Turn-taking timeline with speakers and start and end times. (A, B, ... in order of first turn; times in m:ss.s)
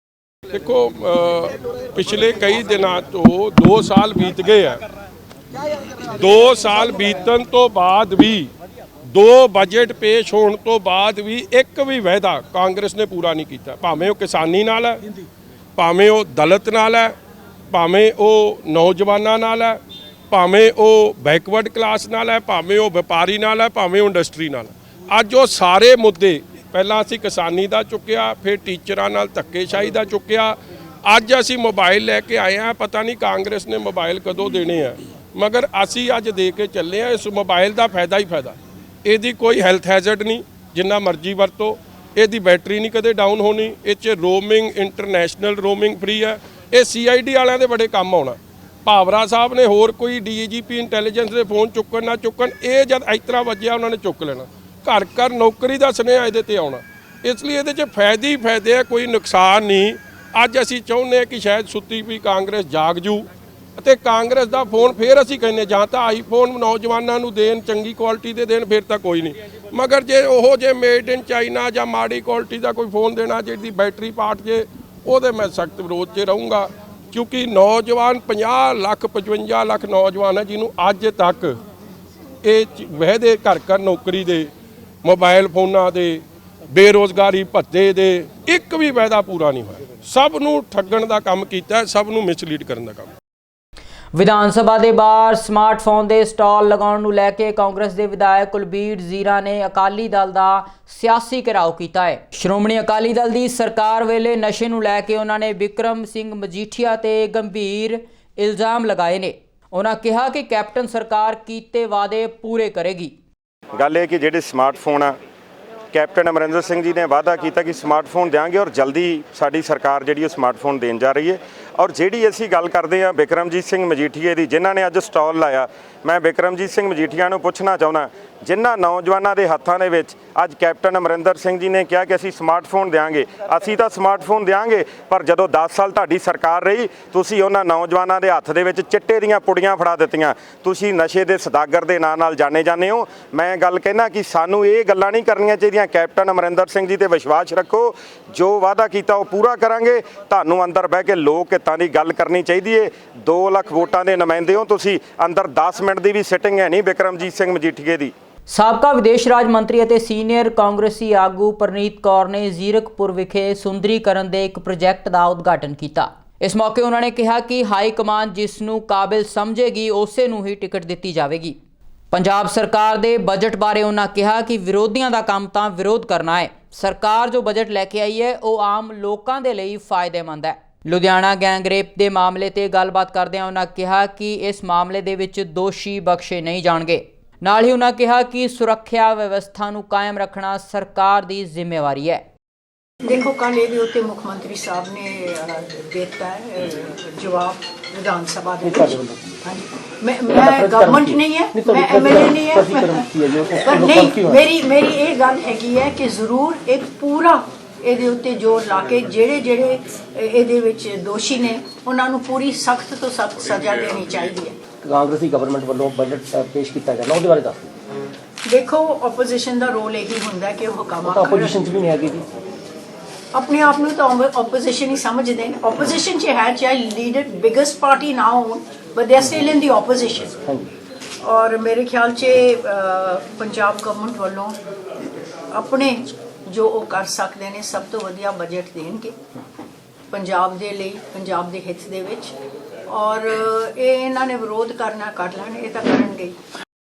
0:00.5-0:04.8 A
0:06.2-0:08.5 A
0:09.1-0:15.0 A
0:15.8-0:17.2 A
0:17.7-0:19.8 A
0:20.3-1:21.6 A
1:22.4-1:24.5 A
1:25.0-1:33.1 A
1:34.1-1:53.2 B
1:53.8-1:55.2 C
1:55.9-2:38.1 C
2:38.5-2:51.6 B
2:52.1-3:12.2 B
3:13.0-3:34.6 D
3:18.6-3:19.4 E
3:20.2-3:24.5 E
3:34.8-3:37.7 E
3:38.4-3:41.8 D
3:41.0-3:42.2 E
3:43.3-3:50.4 D
3:50.4-3:50.7 E
3:51.2-3:54.6 D
3:55.5-3:59.2 D
4:00.1-4:02.4 D
4:02.9-4:06.4 D